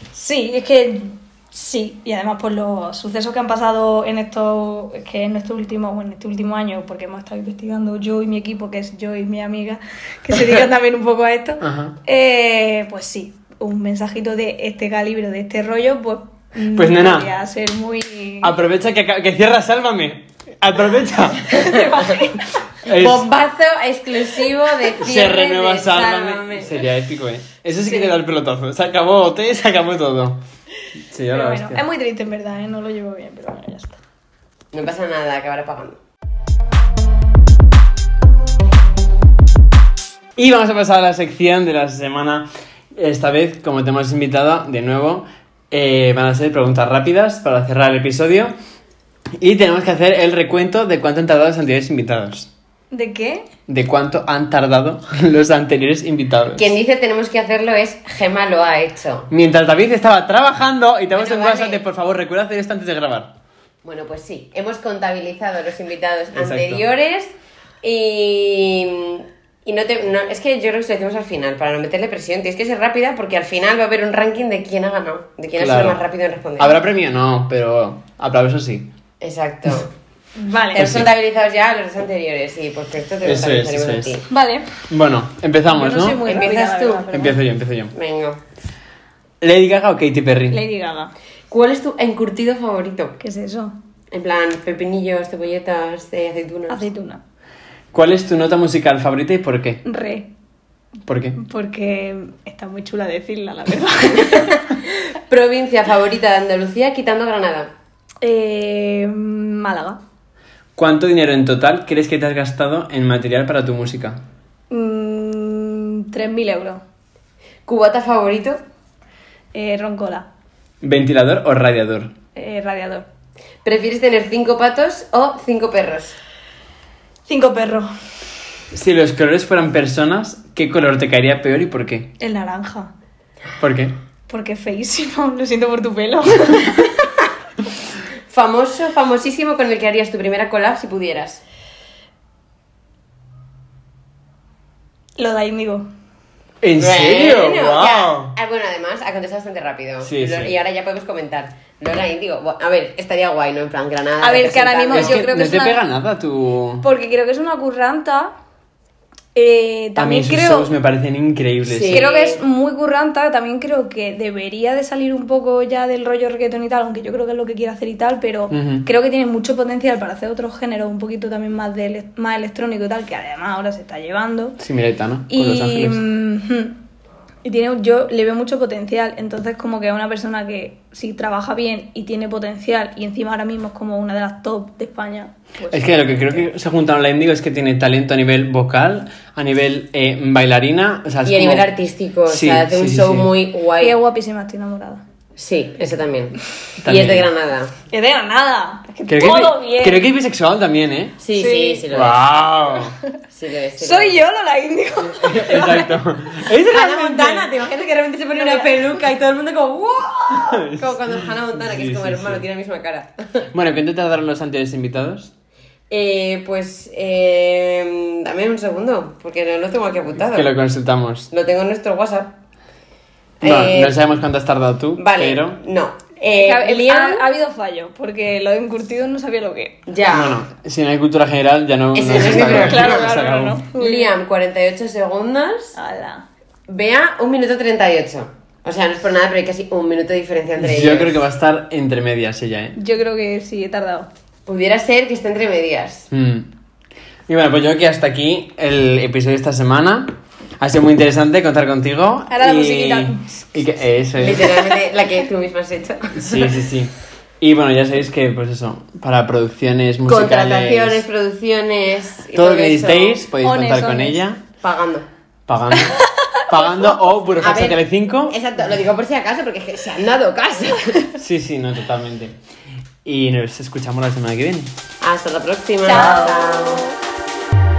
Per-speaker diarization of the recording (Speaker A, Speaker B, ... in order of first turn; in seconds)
Speaker A: 0.1-18.5, 21.5-22.6, 31.3-34.0, 52.9-53.5, 80.4-81.0, 84.3-84.7, 85.7-87.4, 90.5-91.1, 93.2-93.7, 96.7-97.2, 99.8-100.3, 101.3-104.7, 108.2-110.0, 114.7-116.8, 119.5-120.3, 122.3-123.0, 127.3-127.9, 132.2-132.9, 134.3-136.9, 145.2-145.9, 154.2-155.8, 156.8-158.3, 159.3-160.7, 161.9-174.6, 175.3-176.8, 177.4-186.4, 193.8-195.0, 197.9-200.0, 201.3-201.8, 203.8-206.0, 208.3-208.9, 226.2-229.8, 232.4-234.2, 235.7-236.2, 242.8-244.1, 252.3-253.7, 263.4-264.2, 265.7-266.4, 275.8-276.9
Speaker B: 11.6-11.9, 16.7-17.3, 18.4-21.5, 22.8-23.3, 25.0-30.4, 31.1-31.8, 40.4-48.5, 49.4-52.5, 53.7-56.7, 59.3-63.3, 66.3-66.8, 75.5-76.0, 76.6-78.9, 80.8-81.1, 83.2-84.2, 84.9-86.3, 87.1-87.9, 89.4-90.6, 97.9-99.8, 101.1-101.4, 110.8-114.2, 120.8-122.1, 128.7-132.1, 133.6-133.9, 146.6-148.3, 150.0-150.6, 154.9-156.8, 160.0-162.1, 168.5-168.8, 174.6-176.0, 185.7-191.7, 192.3-193.3, 196.8-197.3, 199.1-201.2, 201.9-202.9, 205.2-207.5, 210.3-212.4, 213.5-215.3, 220.2-221.3, 223.4-225.6, 230.1-233.6, 240.6-242.8, 246.1-246.5, 247.3-254.7, 256.1-261.0, 262.3-264.4, 265.5-268.4, 271.1-272.3, 273.0-274.7
Speaker C: 21.6-21.9, 22.9-26.8, 34.7-36.0, 56.5-59.3, 61.1-61.8, 63.8-76.8, 79.2-79.9, 80.7-84.2, 86.2-87.1, 87.9-88.4, 91.5-93.2, 94.1-96.8, 104.4-107.7, 117.7-118.6, 123.6-126.2, 138.3-141.4, 146.8-155.2, 161.7-162.4, 191.2-194.0, 195.3-197.7, 201.2-202.2, 203.3-204.2, 206.7-213.5, 215.9-220.5, 221.3-222.3, 223.4-224.0, 225.0-227.2, 229.9-230.4, 231.9-233.1, 233.7-235.7, 236.7-241.2, 244.4-246.1, 254.2-256.5, 260.1-263.2, 264.6-265.1, 267.4-271.1, 275.0-276.8